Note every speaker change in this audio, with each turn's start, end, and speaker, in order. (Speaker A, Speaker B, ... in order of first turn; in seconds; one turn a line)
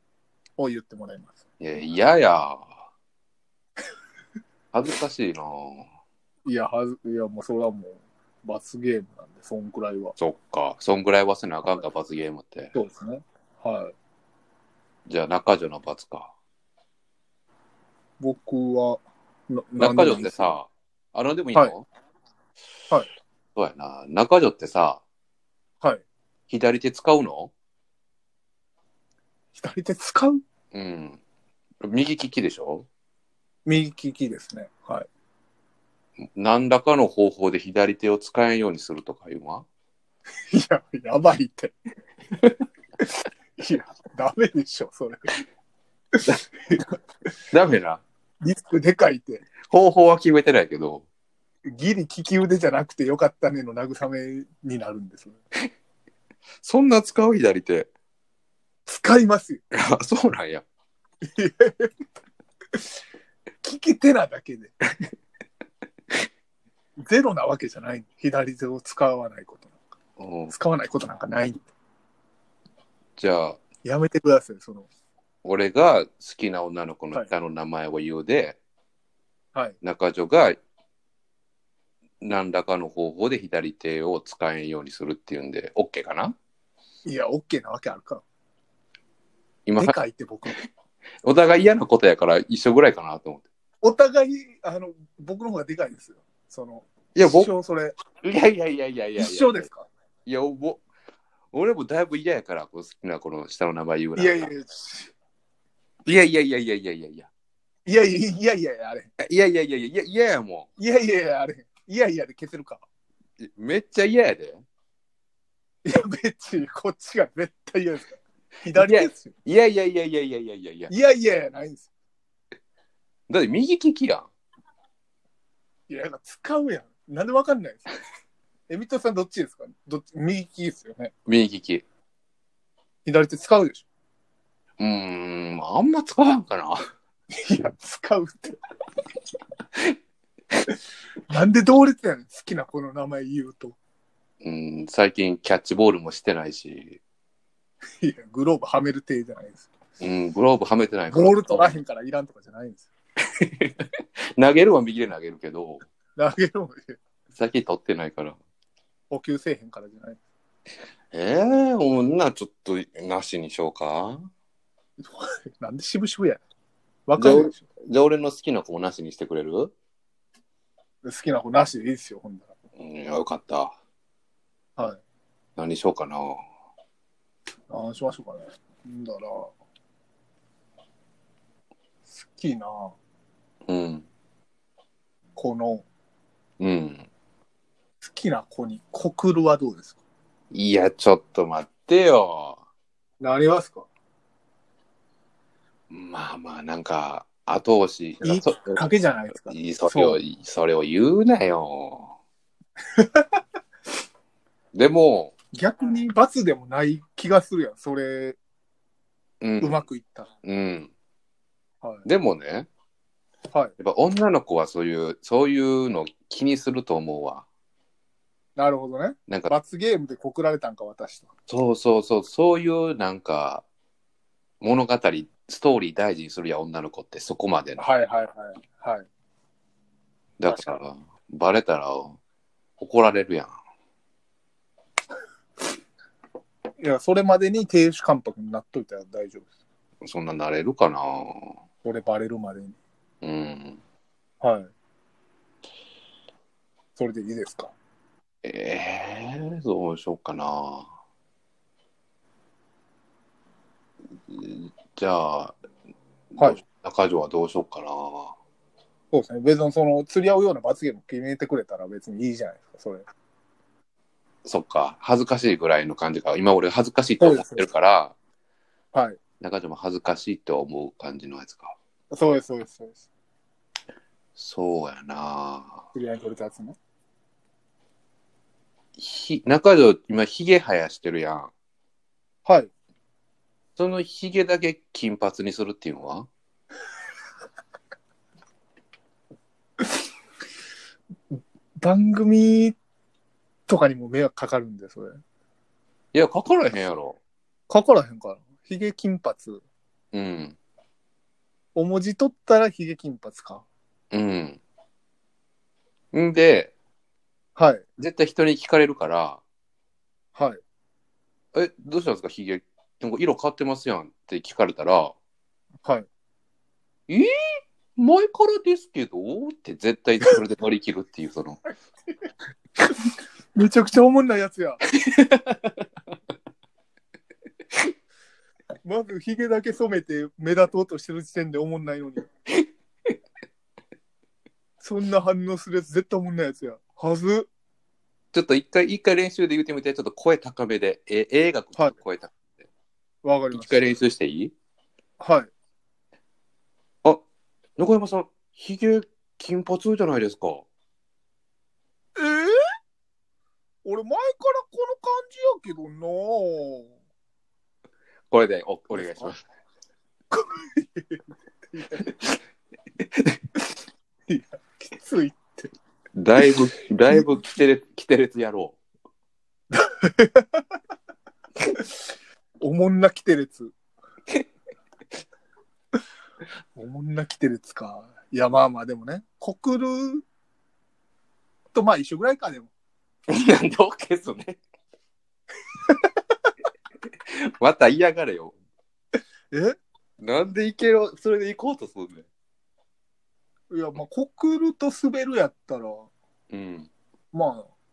Speaker A: 0.6-1.4
Speaker B: 1.6-2.7
Speaker B: 4.7-5.9
Speaker A: 6.5-10.2
Speaker B: 10.2-12.7
Speaker A: 12.7-13.9
Speaker B: 15.1-16.3
Speaker A: 18.2-20.5
Speaker B: 19.8-21.9
Speaker B: 23.6-25.0
Speaker B: 26.5-27.5
Speaker A: 29.6-30.4
Speaker B: 30.7-31.2
Speaker B: 31.8-32.9
Speaker A: 33.6-35.1
Speaker B: 36.4-39.7
Speaker A: 40.5-41.8
Speaker A: 43.6-45.3
Speaker A: 46.2-46.9
Speaker B: 47.5-48.0
Speaker A: 48.4-49.5
Speaker B: 49.7-51.0
Speaker A: 51.7-55.4
Speaker B: 56.6-57.9
Speaker A: 58.9-59.6
Speaker B: 59.7-60.6
Speaker A: 61.2-61.9
Speaker A: 63.6-64.7
Speaker A: 67.0-69.7
Speaker B: 70.2-70.5
Speaker A: 70.5-71.7
Speaker B: 73.2-73.6
Speaker A: 73.8-74.9
Speaker B: 75.4-78.6
Speaker B: 79.8-80.6
Speaker B: 82.2-86.3
Speaker A: 87.0-88.2
Speaker B: 89.7-90.0
Speaker A: 89.8-90.5
Speaker B: 91.2-93.5
Speaker A: 93.8-98.0
Speaker B: 97.2-97.5
Speaker B: 98.2-99.7
Speaker A: 99.2-99.9
Speaker B: 100.3-100.8
Speaker B: 101.5-104.5
Speaker A: 104.2-105.1
Speaker B: 106.1-107.3
Speaker A: 107.9-109.1
Speaker B: 109.2-110.7
Speaker A: 110.8-112.8
Speaker B: 113.4-114.6
Speaker A: 115.8-119.3
Speaker B: 118.7-120.9
Speaker A: 120.9-121.9
Speaker B: 123.3-124.3
Speaker A: 125.9-127.9
Speaker A: 128.7-131.1
Speaker B: 131.3-131.8
Speaker A: 133.1-133.8
Speaker B: 134.8-136.8
Speaker A: 137.4-138.6
Speaker A: 141.3-143.8
Speaker B: 144.4-147.0
Speaker A: 148.0-149.7
Speaker B: 150.0-151.7
Speaker A: 151.1-152.9
Speaker B: 153.4-153.9
Speaker B: 154.4-155.8
Speaker A: 156.2-157.0
Speaker B: 157.3-158.4
Speaker A: 159.1-160.2
Speaker B: 161.1-164.3
Speaker A: 165.0-166.4
Speaker A: 167.1-167.6
Speaker B: 167.2-169.7
Speaker A: 171.0-172.5
Speaker B: 172.8-173.8
Speaker B: 175.6-176.4
Speaker A: 177.7-179.5
Speaker A: 182.1-182.9
Speaker B: 183.7-184.1
Speaker A: 185.4-185.8
Speaker B: 186.6-187.1
Speaker A: 188.0-189.9
Speaker B: 190.5-192.6
Speaker A: 193.2-193.9
Speaker B: 195.9-198.9
Speaker A: 198.2-200.2
Speaker B: 199.4-202.1
Speaker A: 203.0-203.3
Speaker B: 204.7-205.3
Speaker A: 205.5-208.4
Speaker B: 209.4-209.8
Speaker A: 209.6-210.3
Speaker B: 210.4-210.9
Speaker B: 212.1-212.7
Speaker B: 213.8-217.4
Speaker A: 218.6-221.3
Speaker B: 221.5-223.7
Speaker B: 224.6-227.9
Speaker A: 227.8-229.1
Speaker B: 230.4-232.2
Speaker A: 230.5-230.8
Speaker B: 232.8-233.5
Speaker A: 236.8-239.5
Speaker B: 240.1-241.5
Speaker A: 241.8-242.8
Speaker B: 243.2-243.8
Speaker A: 244.4-244.7
Speaker A: 247.0-247.7
Speaker B: 248.4-250.9
Speaker B: 254.3-255.6
Speaker B: 256.4-258.4
Speaker A: 259.1-263.1
Speaker B: 264.4-268.1
Speaker A: 267.2-267.7
Speaker A: 268.9-269.2
Speaker B: 269.4-271.8
Speaker A: 272.1-273.0
Speaker B: 274.4-275.8
Speaker A: 275.9-276.8
Speaker B: 279.0-281.5
Speaker A: 282.5-282.7
Speaker B: 283.8-286.3
Speaker A: 291.3-292.8
Speaker A: 293.7-295.2
Speaker B: 296.1-297.2
Speaker A: 297.7-299.6
Speaker B: 300.1-300.6
Speaker A: 301.8-303.6
Speaker B: 304.1-304.6
Speaker B: 306.1-306.7
Speaker A: 307.6-307.8
Speaker B: 308.0-309.4
Speaker A: 310.4-310.6
Speaker B: 311.5-315.1
Speaker B: 318.0-321.6
Speaker A: 323.6-324.8
Speaker B: 325.1-325.8
Speaker A: 328.8-332.3
Speaker A: 334.8-337.5
Speaker B: 338.3-342.4
Speaker A: 343.2-344.0
Speaker B: 343.5-344.5
Speaker A: 345.2-345.5
Speaker B: 347.8-350.6
Speaker A: 352.2-352.6
Speaker A: 353.9-356.9
Speaker B: 358.3-359.4
Speaker A: 358.9-359.3
Speaker A: 360.3-362.1
Speaker A: 364.3-365.7
Speaker B: 366.2-368.8
Speaker A: 369.7-370.6
Speaker A: 372.6-373.7
Speaker A: 376.8-380.2
Speaker A: 381.7-382.7
Speaker B: 383.3-384.6
Speaker B: 387.6-388.6
Speaker B: 390.2-392.3
Speaker A: 393.7-396.1
Speaker B: 396.5-396.9
Speaker A: 397.3-397.7